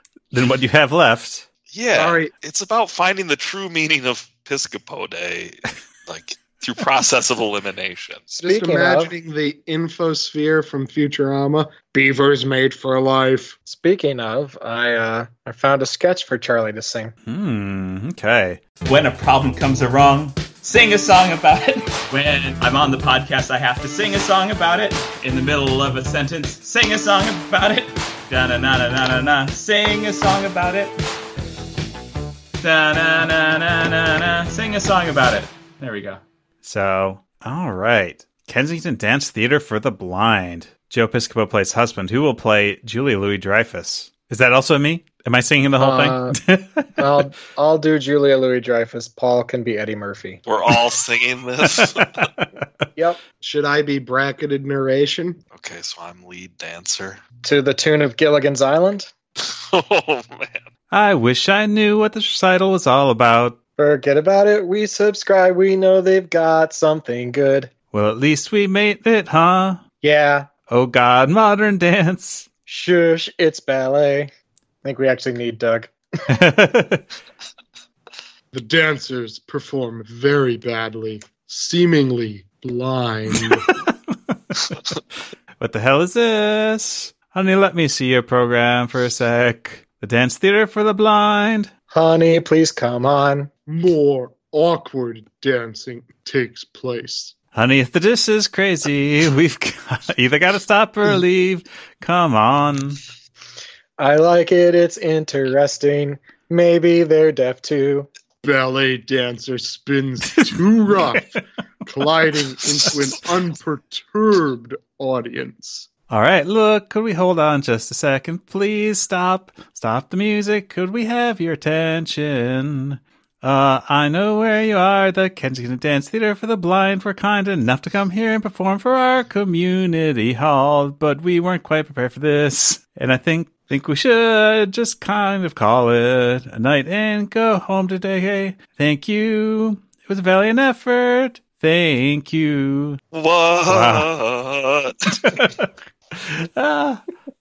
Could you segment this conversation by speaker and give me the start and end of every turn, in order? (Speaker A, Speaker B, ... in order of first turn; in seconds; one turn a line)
Speaker A: 0.3-1.4
Speaker B: 1.7-8.2
Speaker C: 1.9-2.3
Speaker D: 8.3-9.1
Speaker C: 8.4-13.6
Speaker D: 13.7-17.1
Speaker A: 17.2-18.6
Speaker E: 18.8-30.9
Speaker E: 32.6-36.2
Speaker A: 36.6-47.2
Speaker D: 45.8-46.4
Speaker D: 47.0-50.4
Speaker B: 50.5-52.3
Speaker A: 51.6-52.5
Speaker C: 53.4-55.4
Speaker B: 55.5-57.2
Speaker D: 57.4-59.1
Speaker B: 59.4-60.7
Speaker A: 60.9-63.6
Speaker D: 63.8-67.7
Speaker A: 67.9-69.8
Speaker D: 70.0-70.5
Speaker A: 70.7-72.5
Speaker D: 72.7-74.3
Speaker D: 74.8-75.9
Speaker A: 76.3-77.0
Speaker C: 78.5-83.7
Speaker A: 85.6-91.7
Speaker D: 91.9-93.5
Speaker C: 93.7-97.3
Speaker A: 97.5-103.0
Speaker D: 104.0-108.1
Speaker C: 108.4-111.3
Speaker A: 110.4-111.2
Speaker C: 111.8-115.9
Speaker A: 116.1-143.0
Speaker B: 143.1-145.4
Speaker A: 143.7-144.1
Speaker A: 145.2-147.0